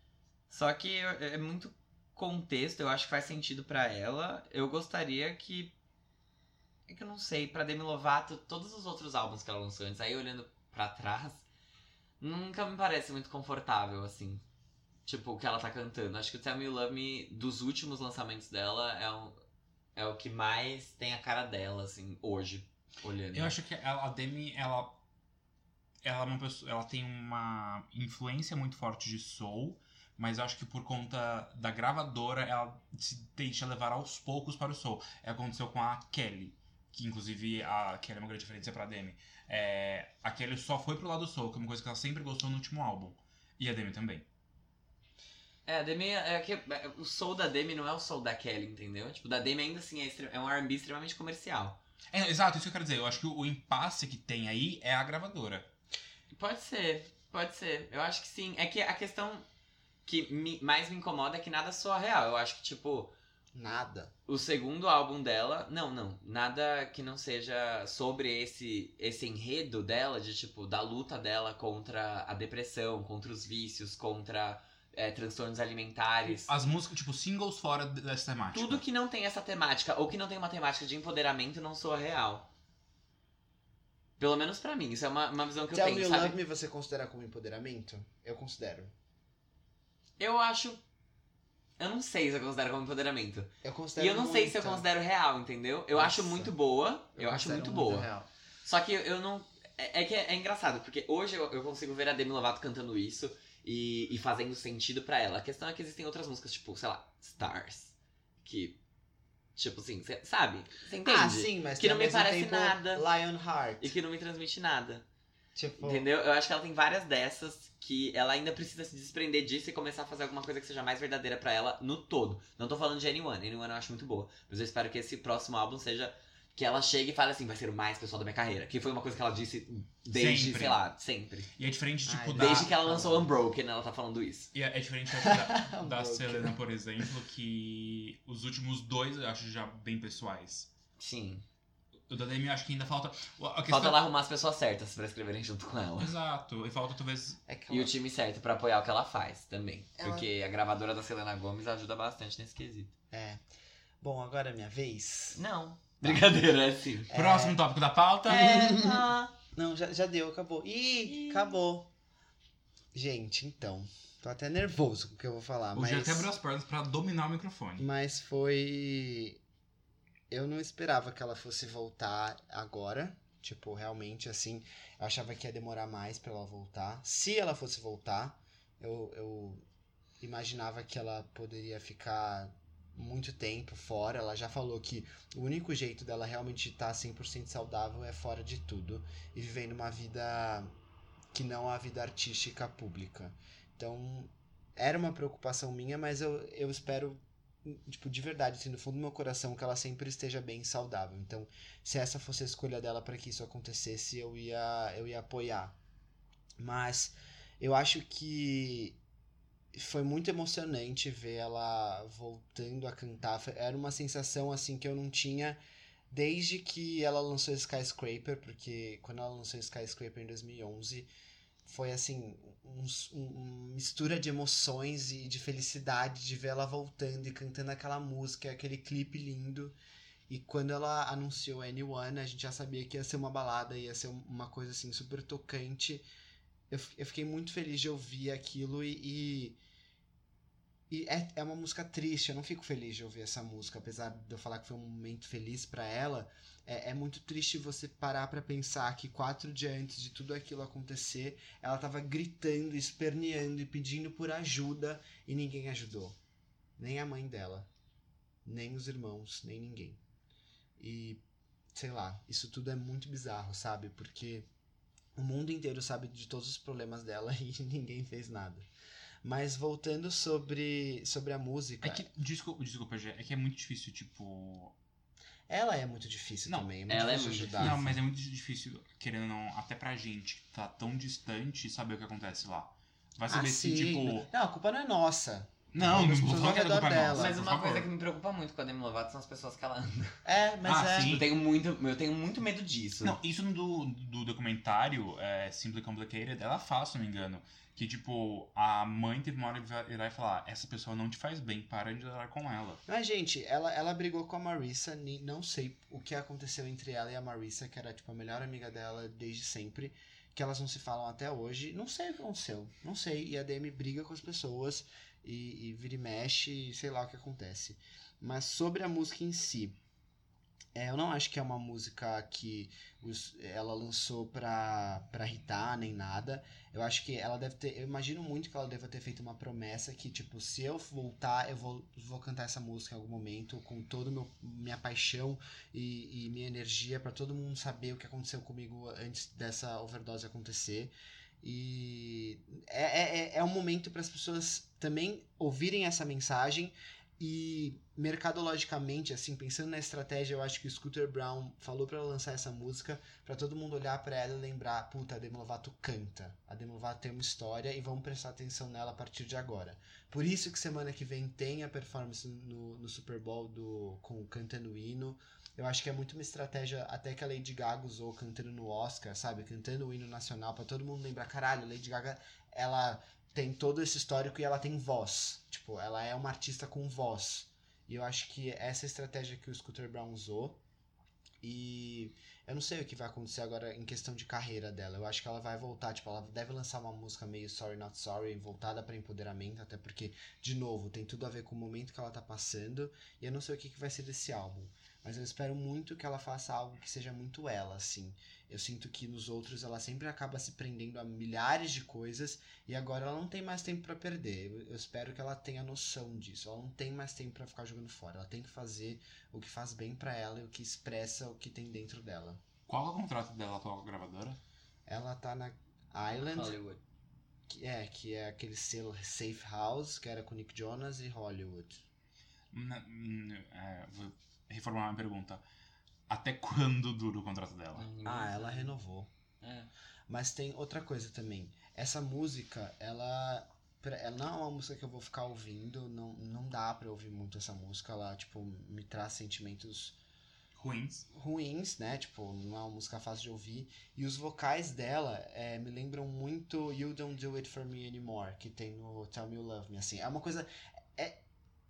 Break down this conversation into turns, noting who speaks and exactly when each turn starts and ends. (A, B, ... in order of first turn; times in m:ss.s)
0:00.5-0:05.7 A
0:06.9-0:11.4 A
0:12.2-0:14.4 A
0:15.0-0:19.4 A
0:20.0-0:23.5 A
0:23.3-0:25.0 B
0:26.0-0:44.2 B
0:45.6-0:51.8 A
0:52.1-0:55.7 B
0:56.3-0:59.4 A
1:00.0-1:03.1 A
1:03.5-1:04.1 C
1:04.3-1:16.5 A
1:16.3-1:18.8 B
1:18.5-1:22.5 A
1:24.2-1:26.4 A
1:25.7-1:28.9 C
1:30.2-1:30.8 A
1:31.8-1:38.1 A
1:33.6-1:34.8 C
1:35.9-1:36.5 C
1:37.2-1:38.3 C
1:38.6-1:48.8 A
1:49.6-1:53.0 A
1:51.0-1:53.9 C
1:53.8-1:55.0 A
1:55.5-1:56.0 C
1:55.8-2:11.5 A
2:10.1-2:10.8 B
2:11.6-2:12.7 B
2:12.0-2:13.3 C
2:12.4-2:14.5 A
2:14.5-2:20.7 B
2:15.1-2:16.6 C
2:21.0-2:21.4 A
2:22.1-2:24.0 B
2:23.7-2:26.1 A
2:26.0-2:27.4 B
2:27.4-2:28.0 C
2:27.7-2:32.9 A
2:30.0-2:30.3 C
2:33.1-2:33.4 C
2:34.0-2:35.4 C
2:35.3-2:37.1 A
2:37.1-2:37.6 C
2:37.1-2:38.8 B
2:38.3-2:41.9 C
2:41.1-2:41.4 A
2:42.9-2:46.3 C
2:45.7-2:47.8 B
2:47.8-2:49.4 C
2:50.3-2:59.6 C
3:00.2-3:10.7 C
3:11.3-3:25.8 C
3:26.6-3:29.0 C
3:29.7-3:35.6 C
3:36.1-3:41.1 C
3:41.6-3:49.7 C
3:50.3-3:56.0 C
3:56.7-3:59.6 C
4:00.9-4:16.2 C
4:16.8-4:17.7 C
4:18.4-4:20.0 C
4:20.8-4:21.2 C
4:21.7-4:24.5 C
4:25.2-4:28.7 C
4:29.2-4:32.0 C
4:31.8-4:34.7 B
4:35.5-4:37.9 C
4:36.9-4:37.9 A
4:37.6-4:44.3 B
4:43.3-4:47.4 C
4:45.7-4:47.9 B
4:47.1-4:50.2 A
4:50.2-4:51.2 C
4:50.6-4:51.3 B
4:51.0-4:53.2 A
4:53.0-5:02.8 B
5:02.9-5:19.8 C
5:20.7-6:20.6 C
6:21.4-6:52.4 C
6:52.7-6:54.4 B
6:54.9-6:56.6 C
6:56.2-6:56.8 A
6:57.5-7:01.8 C
7:02.5-7:05.4 B
7:06.1-7:07.9 B
7:07.7-7:08.7 A
7:08.0-7:09.1 C
7:09.4-7:09.7 A
7:10.1-7:20.0 C
7:20.6-7:21.0 B
7:21.1-7:31.2 C